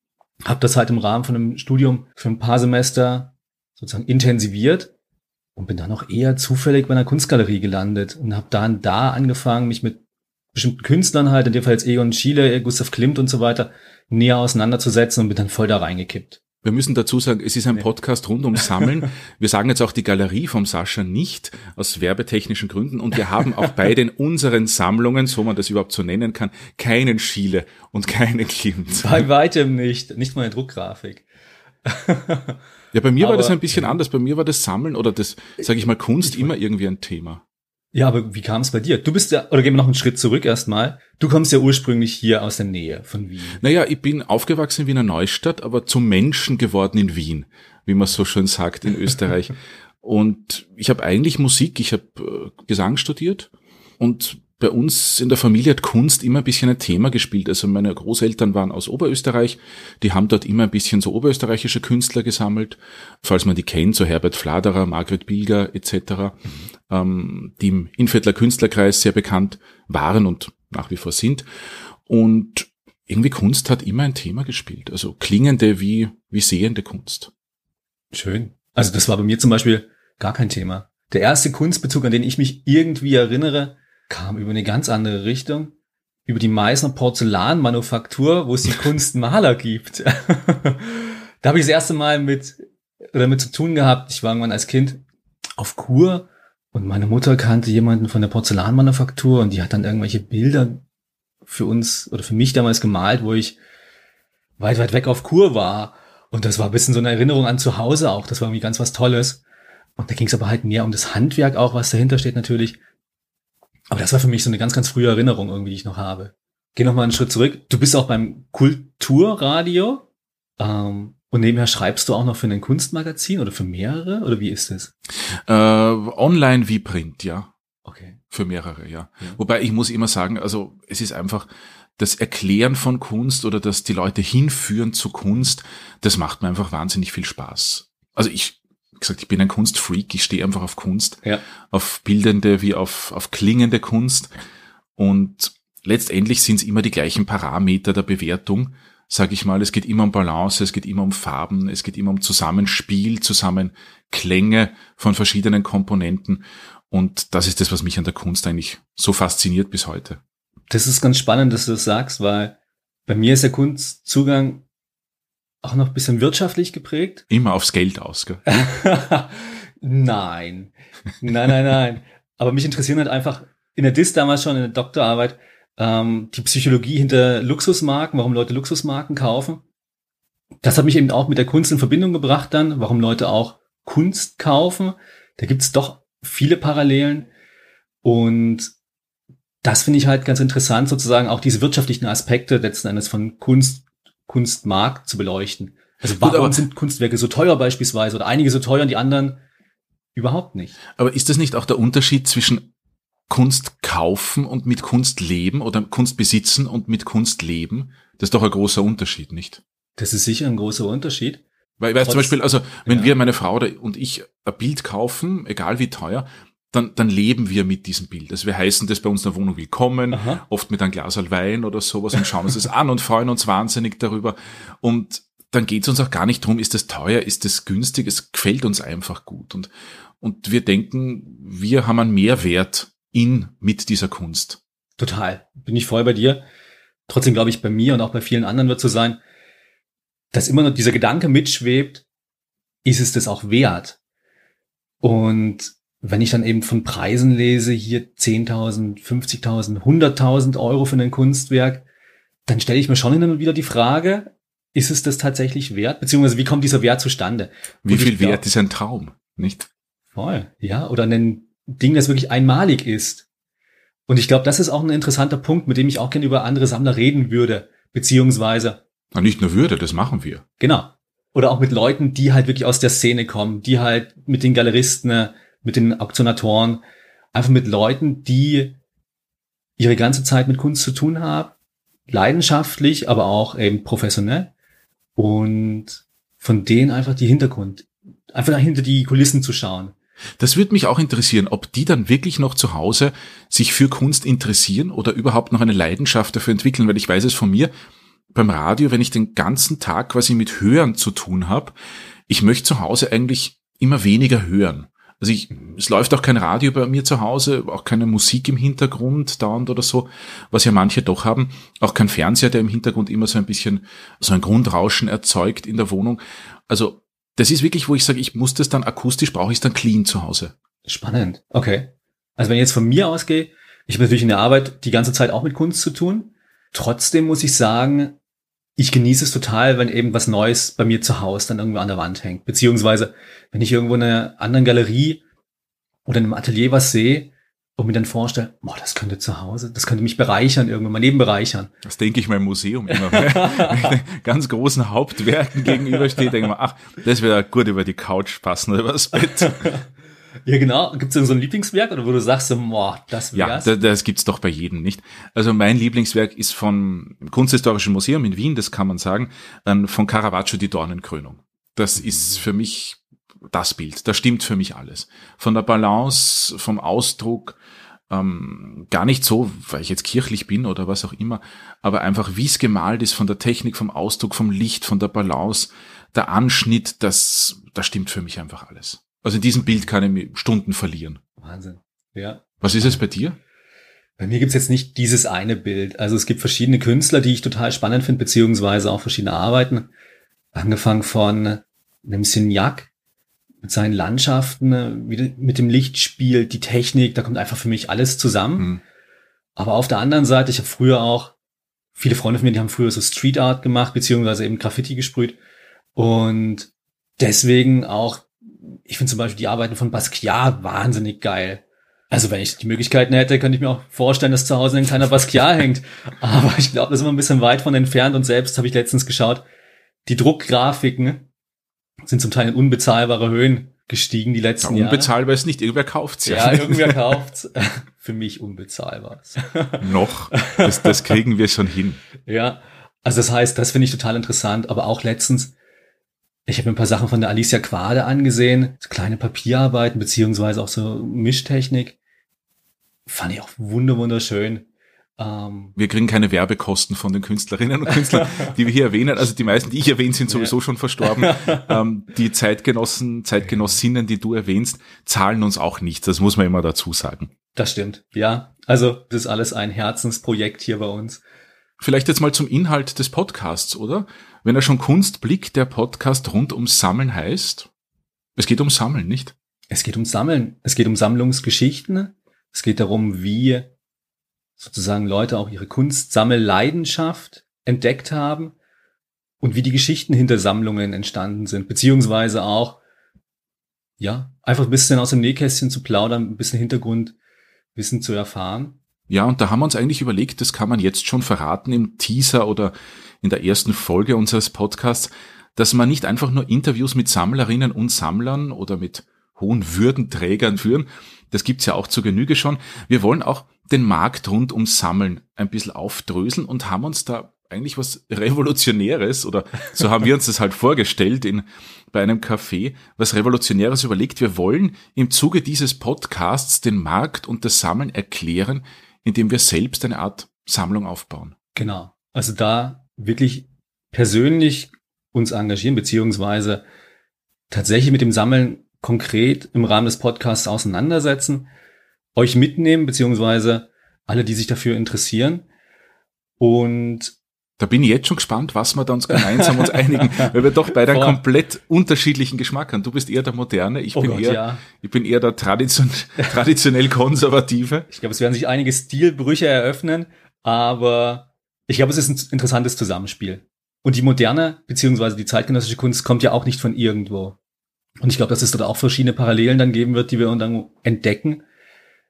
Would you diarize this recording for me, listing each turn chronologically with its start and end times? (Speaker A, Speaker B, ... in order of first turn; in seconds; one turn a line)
Speaker A: 0.4-4.9
Speaker A: 5.5-10.0
Speaker A: 10.5-16.4
Speaker B: 16.6-29.3
Speaker A: 29.0-31.3
Speaker A: 31.9-32.6
Speaker B: 32.9-37.4
Speaker A: 33.2-34.0
Speaker A: 36.2-36.5
Speaker A: 37.9-43.6
Speaker B: 43.6-71.5
Speaker B: 72.1-77.3
Speaker A: 78.1-85.8
Speaker A: 86.3-92.6
Speaker A: 93.1-95.0
Speaker A: 95.6-100.8
Speaker A: 101.5-103.6
Speaker A: 104.6-109.4
Speaker A: 110.0-112.8
Speaker A: 113.9-120.1
Speaker A: 120.6-124.9
Speaker B: 125.5-127.5
Speaker A: 127.8-128.2
Speaker B: 128.3-144.3
Speaker B: 145.0-160.2
Speaker A: 160.7-164.7
Speaker A: 165.6-167.3
Speaker B: 167.3-168.7
Speaker A: 168.5-179.6
Speaker A: 180.6-187.3
Speaker A: 188.0-188.7
Speaker A: 189.6-199.4
Speaker B: 196.0-196.7
Speaker A: 200.2-200.8
Speaker B: 201.0-202.7
Speaker B: 203.3-209.6
Speaker A: 210.0-211.4
Speaker B: 211.8-234.6
Speaker A: 212.0-213.2
Speaker A: 220.1-220.4
Speaker A: 235.0-236.5
Speaker A: 237.1-239.2
Speaker A: 240.3-242.1
Speaker A: 242.8-244.0
Speaker A: 245.0-251.9
Speaker A: 252.5-258.4
Speaker B: 257.9-259.7
Speaker A: 260.1-263.3
Speaker A: 264.1-268.8
Speaker B: 269.1-270.4
Speaker A: 270.6-278.8
Speaker A: 279.8-281.6
Speaker A: 282.1-284.5
Speaker A: 285.2-289.9
Speaker B: 290.4-297.7
Speaker B: 298.3-301.8
Speaker B: 302.3-320.5
Speaker A: 320.9-328.2
Speaker A: 328.8-335.2
Speaker A: 336.1-341.7
Speaker B: 341.8-349.7
Speaker A: 342.9-344.0
Speaker A: 345.6-346.3
Speaker A: 349.1-349.9
Speaker A: 350.4-353.8
Speaker B: 353.3-367.6
Speaker B: 368.1-381.2
Speaker A: 381.4-383.0
Speaker B: 382.6-383.4
Speaker A: 384.2-389.9
Speaker A: 390.5-392.9
Speaker A: 393.6-398.7
Speaker A: 399.6-401.4
Speaker A: 401.9-405.4
Speaker A: 405.9-419.4
Speaker A: 420.1-421.3
Speaker A: 422.1-425.1
Speaker B: 424.6-427.2
Speaker A: 426.3-431.2
Speaker B: 429.8-432.0
Speaker A: 432.2-435.6
Speaker A: 436.5-442.0
Speaker A: 443.1-445.8
Speaker B: 445.8-457.3
Speaker A: 447.9-448.5
Speaker A: 450.3-451.8
Speaker A: 453.4-453.8
Speaker A: 457.6-461.2
Speaker B: 461.8-467.7
Speaker B: 468.4-469.3
Speaker A: 469.7-473.7
Speaker A: 474.6-478.6
Speaker A: 479.4-482.8
Speaker A: 484.0-487.2
Speaker A: 487.8-488.8
Speaker B: 489.1-521.3
Speaker A: 521.5-526.6
Speaker A: 527.5-531.5
Speaker A: 532.1-535.5
Speaker A: 536.4-537.2
Speaker B: 537.6-547.9
Speaker A: 539.1-541.2
Speaker A: 544.0-544.6
Speaker A: 547.9-557.4
Speaker A: 558.0-561.4